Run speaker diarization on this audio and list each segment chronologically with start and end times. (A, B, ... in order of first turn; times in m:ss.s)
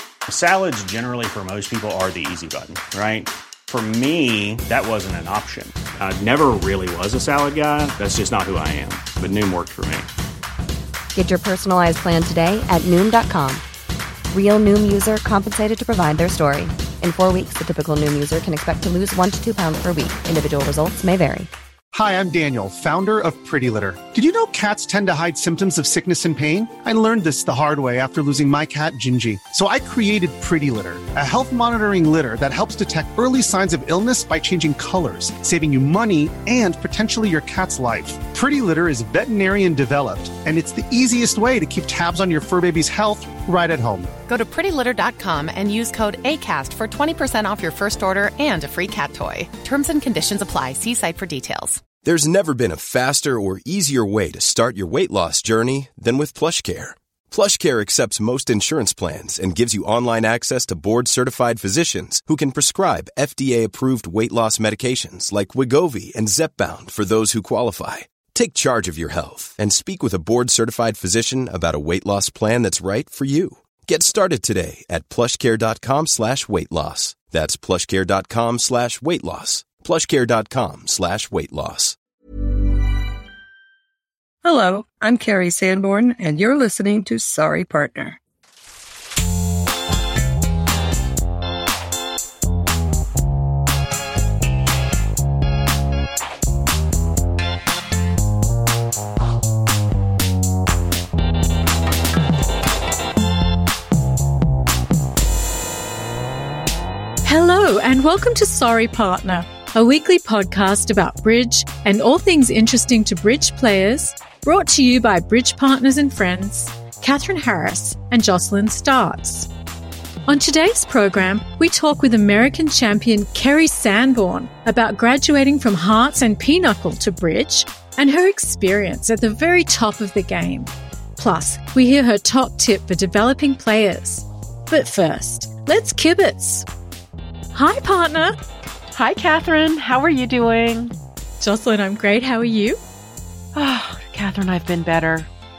0:00.3-0:10.1 A
0:11.1-0:13.6 B
0:14.3-0:21.5 B
0:21.9-0:44.1 C
0:44.3-0:51.8 D
0:52.0-1:22.0 E
1:24.4-1:28.2 F
1:47.2-1:59.5 G
2:00.3-2:16.7 G
2:17.5-2:18.3 G
2:18.9-2:20.9 H
2:21.4-2:22.8 G
2:23.5-2:25.3 H